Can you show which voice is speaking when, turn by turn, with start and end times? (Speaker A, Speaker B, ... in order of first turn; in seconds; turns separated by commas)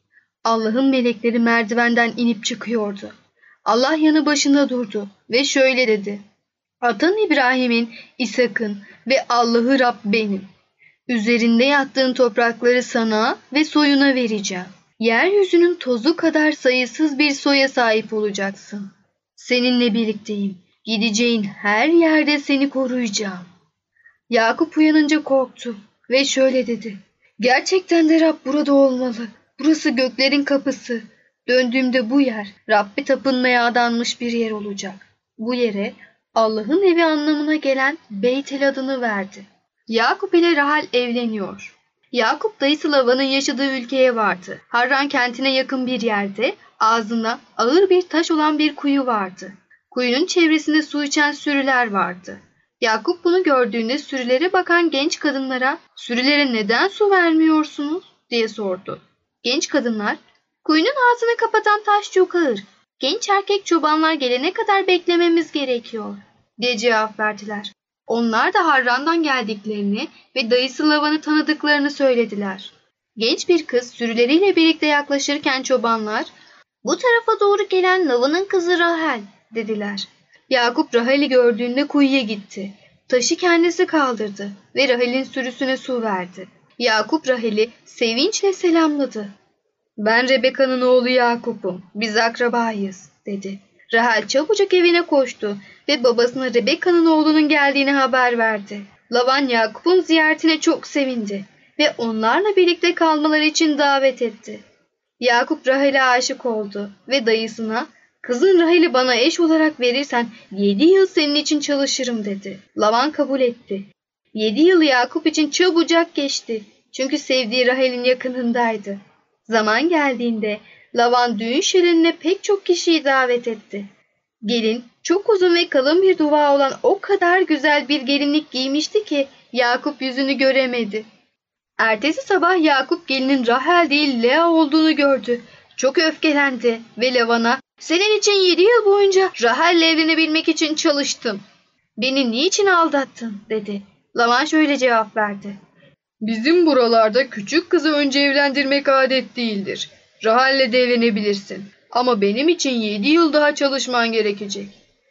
Speaker A: 0.4-3.1, Speaker A: 3.6-6.2, Speaker A: 6.8-10.5, Speaker A: 11.1-23.4, Speaker A: 24.3-76.3, Speaker A: 76.8-89.3, Speaker A: 90.0-104.6, Speaker A: 105.2-123.9, Speaker A: 124.4-131.0, Speaker A: 131.8-141.4, Speaker A: 142.0-145.6, Speaker A: 146.2-154.7